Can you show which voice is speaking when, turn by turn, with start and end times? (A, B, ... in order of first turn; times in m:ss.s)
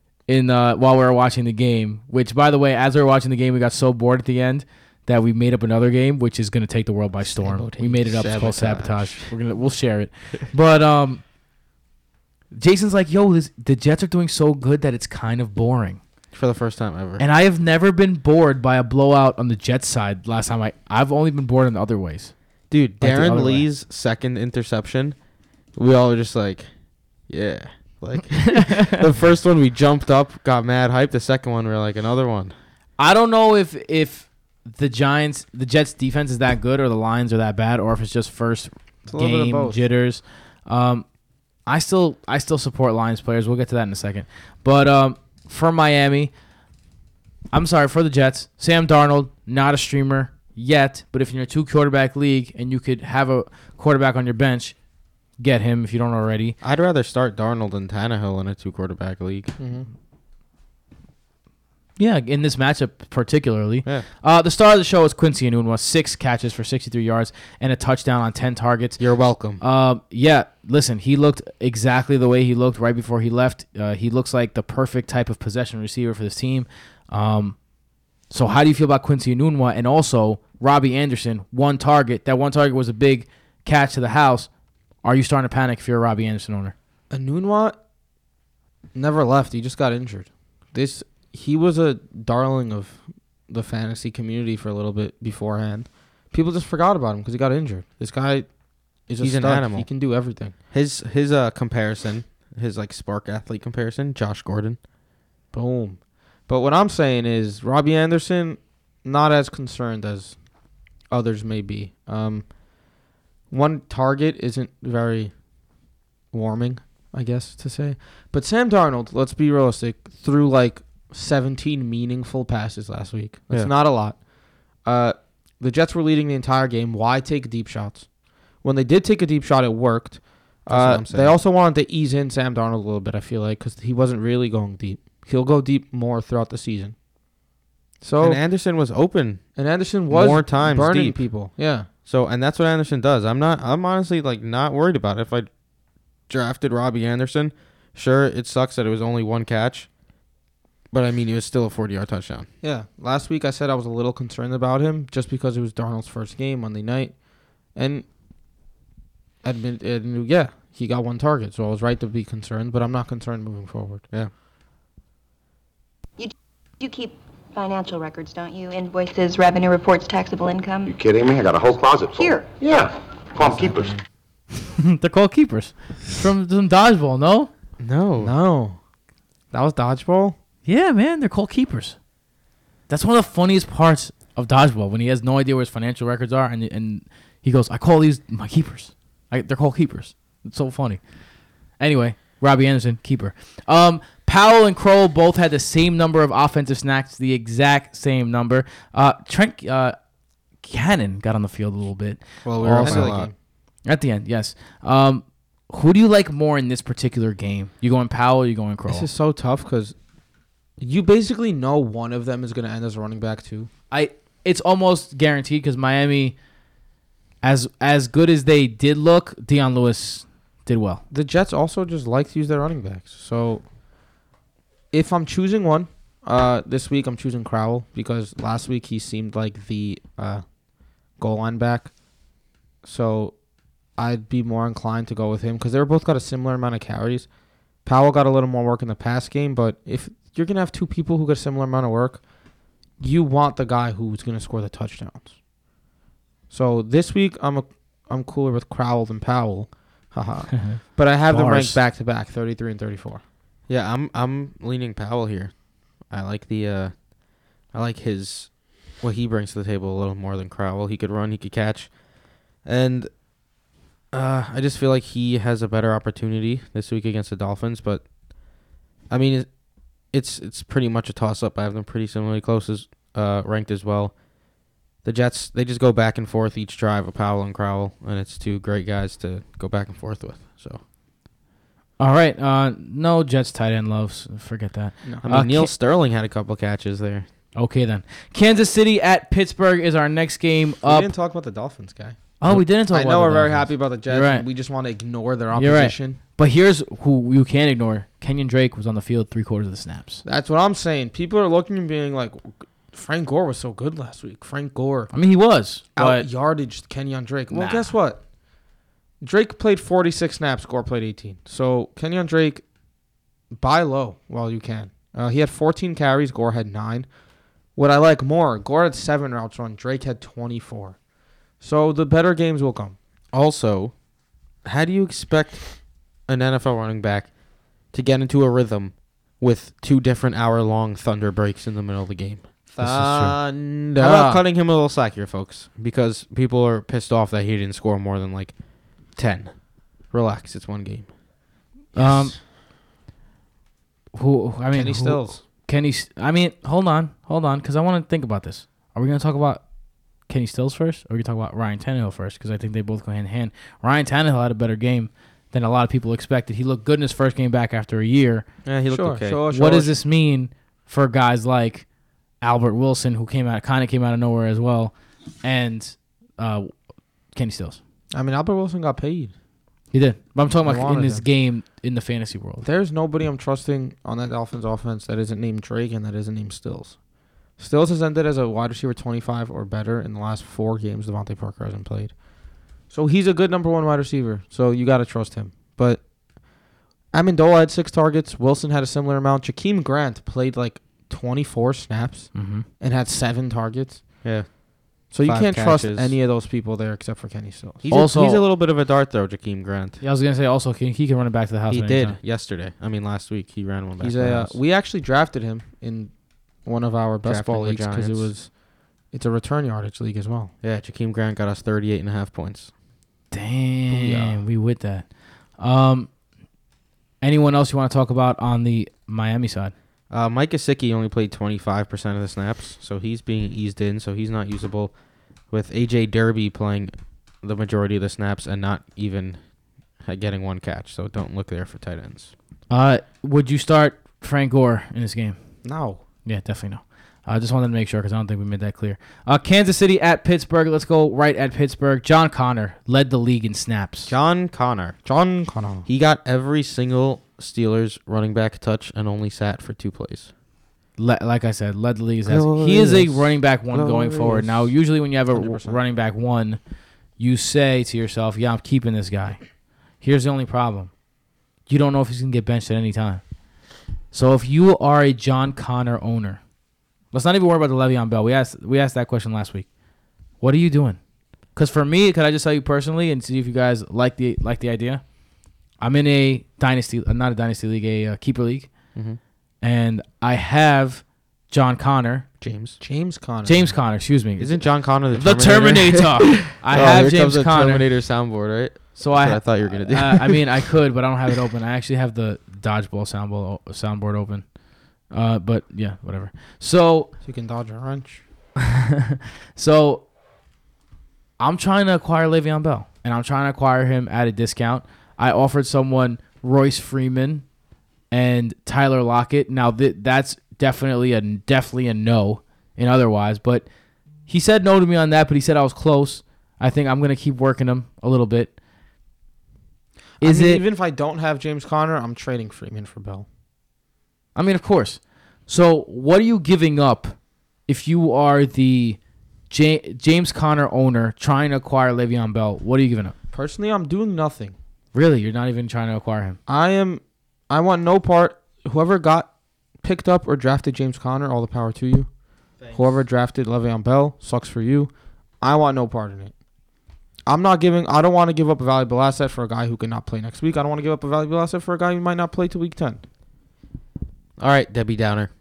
0:00.3-0:11.2 A
0:07.4-0:07.9 B
0:07.9-0:09.3 C
0:12.5-0:16.0 A
0:16.3-0:17.2 C
0:17.2-0:22.3 A
0:22.7-0:25.2 C
0:23.0-0:23.7 A
0:25.8-0:26.7 C
0:27.3-0:32.6 C
0:28.5-0:29.0 A
0:33.0-0:41.1 A
0:39.1-0:39.8 B
0:41.7-0:46.3 A
0:47.5-0:54.8 A
0:55.4-0:56.6 A
0:56.6-0:59.5 C
0:59.6-0:59.9 B
1:02.0-1:09.0 A
1:09.0-1:09.6 C
1:09.6-1:17.6 A
1:18.3-1:24.5 A
1:25.0-1:26.8 A
1:27.1-1:27.8 B
1:29.0-1:38.5 B
1:39.1-1:40.5 B
1:39.2-1:39.9 C
1:40.7-1:44.8 C
1:45.5-1:50.4 B
1:51.1-1:52.5 B
1:53.5-1:55.3 B
1:56.3-2:04.2 B
2:04.8-2:08.1 B
2:08.6-2:17.0 B
2:10.7-2:11.4 C
2:18.0-2:18.4 B
2:18.2-2:19.5 C
2:19.6-2:21.9 B
2:20.1-2:21.2 C
2:22.1-2:25.5 C
2:26.3-2:29.9 C
2:30.9-2:32.5 C
2:32.6-2:37.2 B
2:37.8-2:38.0 B
2:39.4-2:44.0 B
2:46.2-2:50.9 D
2:50.9-2:53.9 E
2:52.2-2:52.5 D
2:54.6-2:57.5 A
2:57.8-2:58.3 C
2:58.2-2:58.8 B
2:59.5-3:00.4 B
3:00.7-3:02.0 A
3:02.9-3:11.0 A
3:11.8-3:20.0 A
3:20.6-3:23.1 A
3:22.5-3:23.3 C
3:22.5-3:23.3 B
3:23.9-3:29.1 A
3:28.9-3:30.0 B
3:30.8-3:33.7 B
3:33.9-3:36.4 A
3:37.4-3:41.0 A
3:41.1-3:43.6 B
3:44.9-3:50.4 B
3:51.2-3:51.9 B
3:52.8-3:53.3 B
3:54.0-3:57.3 B
3:57.8-4:02.2 B
4:03.0-4:05.4 B
4:06.5-4:13.2 B
4:11.3-4:11.8 A
4:13.7-4:17.0 C
4:17.7-4:21.9 C
4:22.6-4:23.1 C
4:24.1-4:28.1 C
4:29.1-4:29.5 C
4:30.1-4:34.2 C
4:35.0-4:40.8 C
4:42.0-4:45.7 A
4:45.2-4:47.3 C
4:47.6-4:51.1 A
4:50.8-4:56.2 B
4:52.4-4:54.5 A
4:55.6-5:00.2 A
5:00.2-5:05.1 B
5:05.1-5:06.2 A
5:06.0-5:08.2 B
5:07.5-5:07.9 A
5:09.2-5:12.6 B
5:13.5-5:17.1 B
5:17.8-5:21.0 B
5:21.6-5:23.0 B
5:23.3-5:23.9 C
5:24.6-5:25.6 C
5:26.3-5:27.3 C
5:27.9-5:32.9 C
5:32.7-5:34.4 B
5:32.8-5:33.4 A
5:34.0-5:38.6 C
5:39.1-5:41.1 C
5:42.0-5:42.4 A
5:42.0-5:42.3 B
5:44.1-5:49.6 A
5:44.7-5:45.4 B
5:50.3-5:58.4 A
5:58.6-5:59.4 C
5:58.9-6:00.0 B
5:59.5-6:01.9 A
6:02.4-6:06.7 A
6:07.4-6:07.8 A
6:08.1-6:09.3 B
6:09.9-6:12.6 A
6:10.6-6:11.2 B
6:12.6-6:17.0 B
6:17.6-6:22.1 B
6:22.9-6:26.0 B
6:27.1-6:34.2 B
6:32.4-6:32.6 A
6:34.2-6:36.2 C
6:35.1-6:37.8 B
6:37.8-6:40.0 C
6:37.9-6:38.4 A
6:40.0-6:42.2 A
6:41.7-6:44.6 C
6:44.0-6:46.1 B
6:46.6-6:48.6 B
6:47.2-6:48.3 C
6:49.1-6:50.5 B
6:50.6-6:52.7 C
6:53.3-6:56.1 A
6:53.9-6:54.4 B
6:57.2-6:59.7 A
7:00.1-7:04.9 C
7:05.5-7:09.4 C
7:10.0-7:12.3 C
7:12.7-7:15.4 A
7:15.6-7:16.0 B
7:16.2-7:24.1 A
7:24.1-7:25.0 C
7:25.1-7:25.9 B
7:25.9-7:30.3 C
7:31.0-7:36.6 A
7:32.3-7:34.6 C
7:35.3-7:35.8 B
7:37.2-7:39.4 A
7:40.0-7:40.9 A
7:41.7-7:43.2 A
7:44.1-7:46.4 A
7:47.1-7:49.7 A
7:50.4-7:51.0 A
7:51.5-7:55.0 A
7:55.8-7:58.7 A
7:59.6-8:02.3 A
8:02.4-8:02.8 C
8:02.8-8:03.7 B
8:03.4-8:07.8 A
8:04.4-8:10.4 C
8:09.0-8:14.5 A
8:15.1-8:17.1 A
8:17.2-8:18.2 B
8:18.6-8:20.0 A
8:21.4-8:27.4 A
8:28.1-8:33.6 A
8:34.3-8:38.5 A
8:40.2-8:40.6 A
8:40.2-8:43.2 B
8:44.4-8:49.0 A
8:49.5-8:53.1 A
8:53.3-8:54.6 B
8:54.9-8:56.4 A
8:56.5-8:59.3 B
8:59.8-9:02.1 B
9:02.7-9:06.3 B
9:07.3-9:13.0 B
9:14.4-9:15.3 C